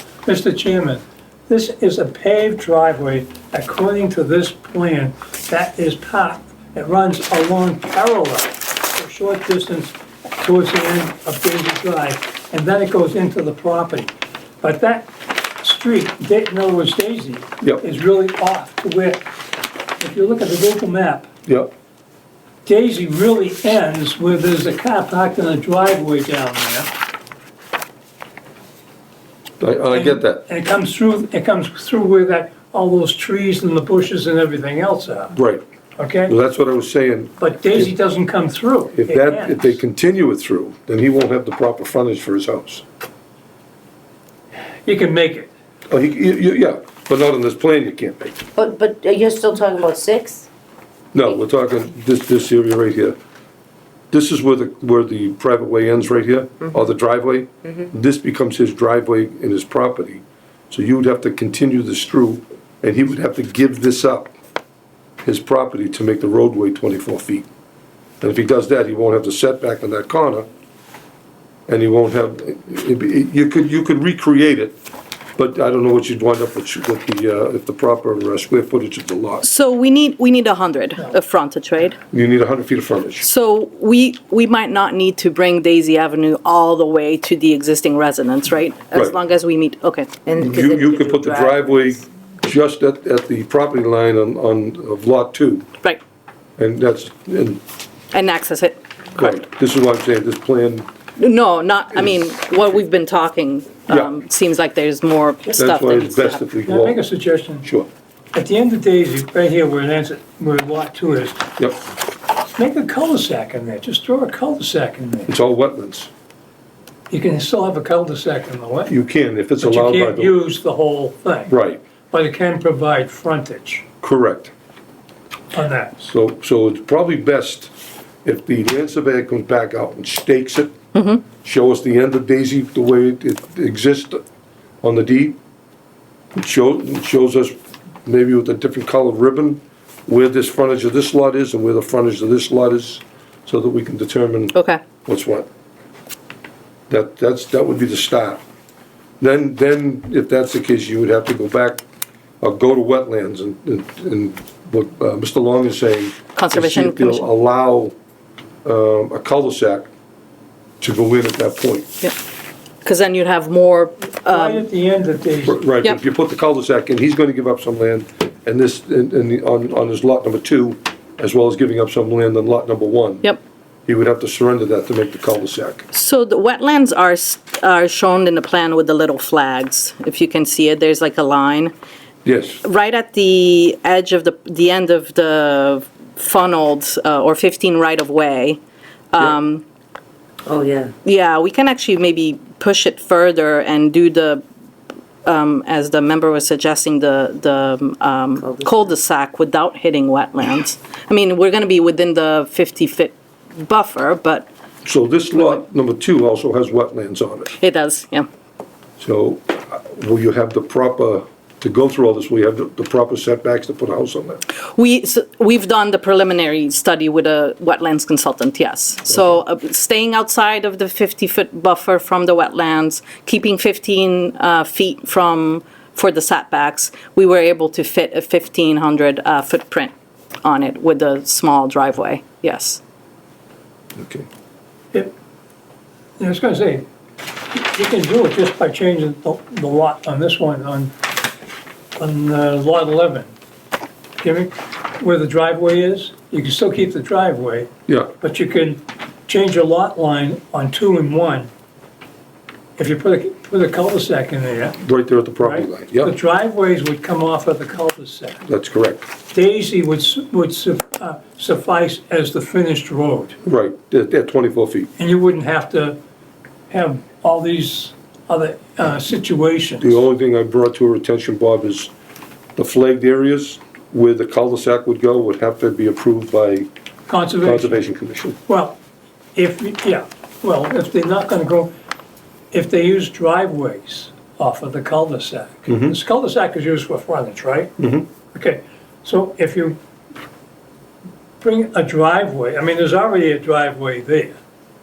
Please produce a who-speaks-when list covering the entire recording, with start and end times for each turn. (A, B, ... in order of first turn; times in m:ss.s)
0:00.2-0:19.2 A
0:20.0-0:21.3 A
0:22.6-0:26.9 A
0:29.6-0:30.4 B
0:29.9-0:35.4 A
0:35.3-0:35.6 B
0:36.0-0:36.3 A
0:36.3-0:37.9 B
0:37.4-0:39.7 A
0:39.0-0:42.8 B
0:44.8-0:45.5 A
0:45.9-0:48.4 B
0:48.6-0:50.5 C
0:51.1-0:53.2 B
0:54.1-1:04.3 B
1:05.2-1:07.5 B
1:08.2-1:10.5 B
1:11.7-1:14.8 B
1:15.4-1:19.4 B
1:19.4-1:22.0 D
1:22.1-1:23.2 B
1:23.2-1:30.2 D
1:30.2-1:31.7 C
1:30.4-1:35.7 B
1:36.6-1:37.6 B
1:38.1-1:39.4 D
1:39.2-1:40.9 B
1:41.2-1:46.4 D
1:43.9-1:44.1 B
1:45.5-1:47.0 B
1:46.6-1:47.7 A
1:47.6-1:47.9 B
1:48.3-1:51.5 A
1:52.6-1:55.3 A
1:55.3-1:56.1 B
1:57.1-1:58.9 A
1:58.9-2:00.4 B
1:59.6-2:01.5 A
2:01.5-2:01.8 B
2:02.1-2:03.8 A
2:04.0-2:04.5 B
2:05.5-2:06.0 A
2:06.0-2:07.7 B
2:08.2-2:14.2 B
2:10.9-2:11.2 D
2:14.8-2:15.4 B
2:16.3-2:25.5 B
2:24.5-2:24.8 D
2:26.9-2:28.4 B
2:29.2-2:31.8 B
2:32.4-2:37.9 B
2:36.3-2:37.2 D
2:38.6-2:39.9 B
2:40.8-2:41.9 B
2:42.8-2:44.6 D
2:44.3-2:45.6 A
2:45.4-2:53.3 B
2:53.9-2:55.9 B
2:55.9-3:01.7 D
3:02.2-3:02.6 B
3:02.6-3:08.6 D
3:09.1-3:09.6 D
3:10.5-3:10.9 C
3:11.0-3:14.4 D
3:15.2-3:24.5 D
3:18.4-3:18.7 C
3:24.8-3:27.5 B
3:27.6-3:28.3 D
3:29.0-3:34.4 B
3:34.7-3:52.8 D
3:54.0-3:54.2 B
3:56.2-3:56.8 A
3:57.5-4:00.9 A
4:01.9-4:03.3 A
4:04.2-4:11.5 A
4:07.9-4:08.1 B
4:12.8-4:14.8 A
4:14.8-4:16.1 B
4:15.4-4:18.4 A
4:18.4-4:19.0 B
4:19.3-4:23.4 A
4:23.4-4:24.9 B
4:25.0-4:26.0 A
4:26.7-4:30.0 A
4:29.8-4:31.9 B
4:32.6-4:36.7 B
4:37.1-4:37.8 A
4:37.4-4:38.4 B
4:38.5-4:38.8 A
4:39.3-4:41.7 A
4:42.5-4:47.7 A
4:45.7-4:45.9 B
4:47.8-4:48.1 B
4:48.3-4:49.8 A
4:51.4-4:54.4 A